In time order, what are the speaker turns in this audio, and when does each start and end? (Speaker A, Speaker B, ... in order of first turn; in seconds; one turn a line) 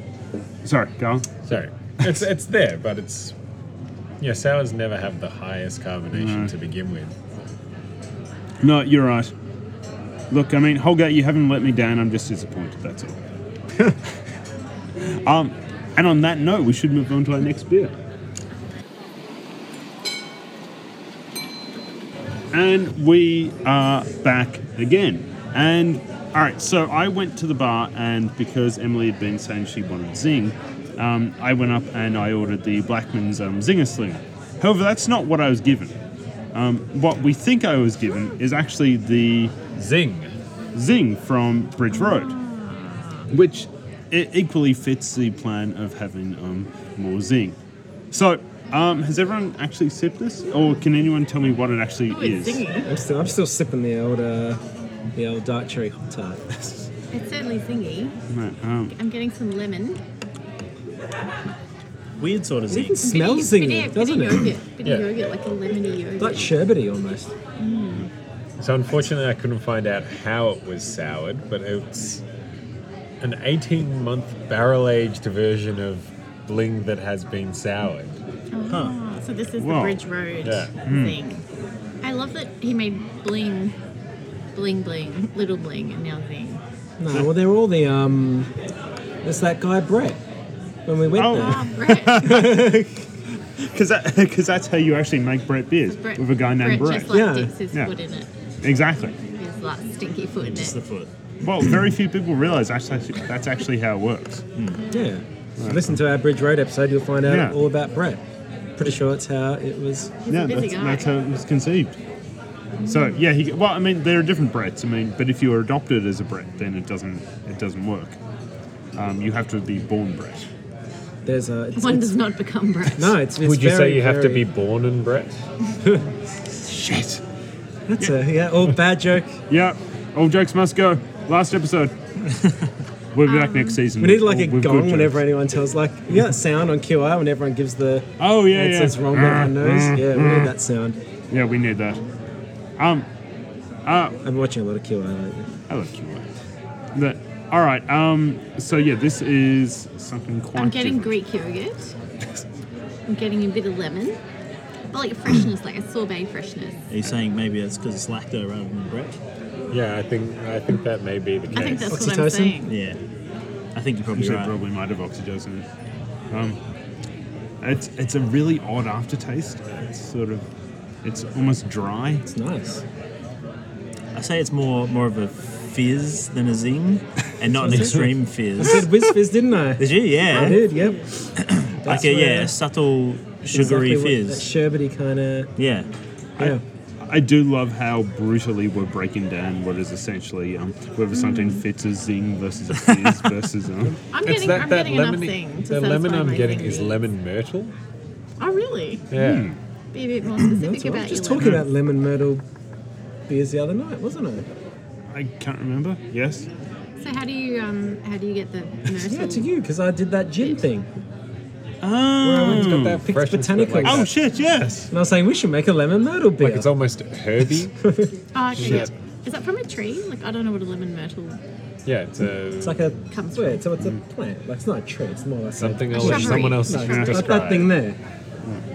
Speaker A: 0.6-1.3
Speaker B: 1.5-3.4
Speaker B: 4.2-7.1
Speaker A: 6.1-6.5
Speaker A: 8.6-9.3
Speaker A: 10.3-13.2
Speaker A: 15.0-17.9
Speaker A: 22.5-35.9
Speaker A: 36.5-39.5
Speaker B: 39.7-40.3
Speaker A: 40.7-42.4
Speaker C: 41.9-43.3
Speaker A: 43.3-47.5
Speaker A: 48.1-52.6
Speaker C: 52.1-52.9
Speaker D: 52.8-54.6
Speaker D: 55.1-56.5
Speaker C: 57.1-58.1
Speaker A: 58.3-58.9
Speaker C: 58.9-60.0
Speaker E: 62.2-63.1
Speaker D: 62.7-64.5
Speaker C: 63.0-66.5
Speaker D: 66.2-67.3
Speaker C: 67.6-68.1
Speaker B: 68.6-72.2
Speaker B: 73.2-78.2
Speaker C: 78.5-81.4
Speaker E: 78.7-79.0
Speaker A: 79.6-80.0
Speaker B: 80.4-80.7
Speaker A: 80.9-81.2
Speaker C: 82.0-83.7
Speaker C: 84.5-86.6
Speaker D: 87.0-88.5
Speaker D: 89.2-90.2
Speaker D: 90.9-91.7
Speaker A: 91.1-92.8
Speaker C: 91.3-92.5
Speaker D: 92.2-93.0
Speaker A: 93.6-97.2
Speaker C: 95.9-98.3
Speaker D: 97.1-97.5
Speaker A: 98.6-99.1
Speaker C: 99.4-100.8
Speaker E: 100.5-101.1
Speaker A: 101.4-104.4
Speaker E: 104.5-104.8
Speaker D: 104.9-108.2
Speaker A: 105.6-106.0
Speaker A: 107.3-107.5
Speaker D: 108.8-110.1
Speaker C: 110.2-111.1
Speaker A: 110.3-112.0
Speaker C: 112.8-113.2
Speaker A: 112.9-118.2
Speaker A: 119.0-120.5
Speaker D: 121.2-122.2
Speaker C: 121.8-123.1
Speaker D: 123.0-124.5
Speaker B: 123.4-125.4
Speaker A: 126.6-127.2
Speaker D: 127.9-129.4
Speaker A: 129.5-131.9
Speaker A: 133.1-135.2
Speaker C: 133.2-133.8
Speaker D: 134.0-141.0
Speaker A: 138.2-140.5
Speaker A: 141.3-142.0
Speaker A: 142.8-143.1
Speaker A: 143.9-144.2
Speaker D: 144.2-145.6
Speaker A: 145.7-146.2
Speaker A: 146.9-151.1
Speaker C: 150.5-151.9
Speaker C: 153.1-154.2
Speaker C: 154.9-156.8
Speaker E: 156.9-159.2
Speaker B: 159.7-162.0
Speaker C: 161.5-162.7
Speaker D: 161.9-162.6
Speaker E: 162.6-163.0
Speaker E: 163.7-164.6
Speaker A: 164.1-165.6
Speaker A: 166.3-166.6
Speaker A: 167.6-170.4
Speaker A: 171.0-172.2
Speaker D: 172.3-172.8
Speaker E: 174.1-179.1
Speaker D: 177.5-181.1
Speaker E: 179.8-180.6
Speaker C: 180.3-181.1
Speaker E: 181.4-184.5
Speaker D: 181.8-182.6
Speaker D: 183.5-185.5
Speaker E: 185.6-185.9
Speaker A: 186.4-194.0
Speaker C: 191.1-191.6
Speaker C: 194.1-197.0
Speaker B: 194.2-197.7
Speaker C: 198.4-199.1
Speaker B: 199.1-199.5
Speaker A: 199.1-199.6
Speaker C: 199.9-201.6
Speaker D: 200.4-202.4
Speaker A: 201.4-201.7
Speaker D: 203.3-204.5
Speaker A: 205.1-206.5
Speaker C: 207.0-209.5
Speaker D: 209.0-210.9
Speaker A: 211.8-213.0
Speaker D: 212.2-214.1
Speaker B: 212.4-214.1
Speaker A: 213.8-214.9
Speaker D: 214.9-216.7
Speaker B: 216.4-217.7
Speaker D: 217.8-218.1
Speaker C: 218.3-221.4
Speaker B: 218.6-218.9
Speaker B: 221.9-222.9
Speaker D: 222.6-228.0
Speaker C: 223.1-223.6
Speaker B: 225.6-227.7
Speaker C: 225.9-227.2
Speaker A: 226.7-227.2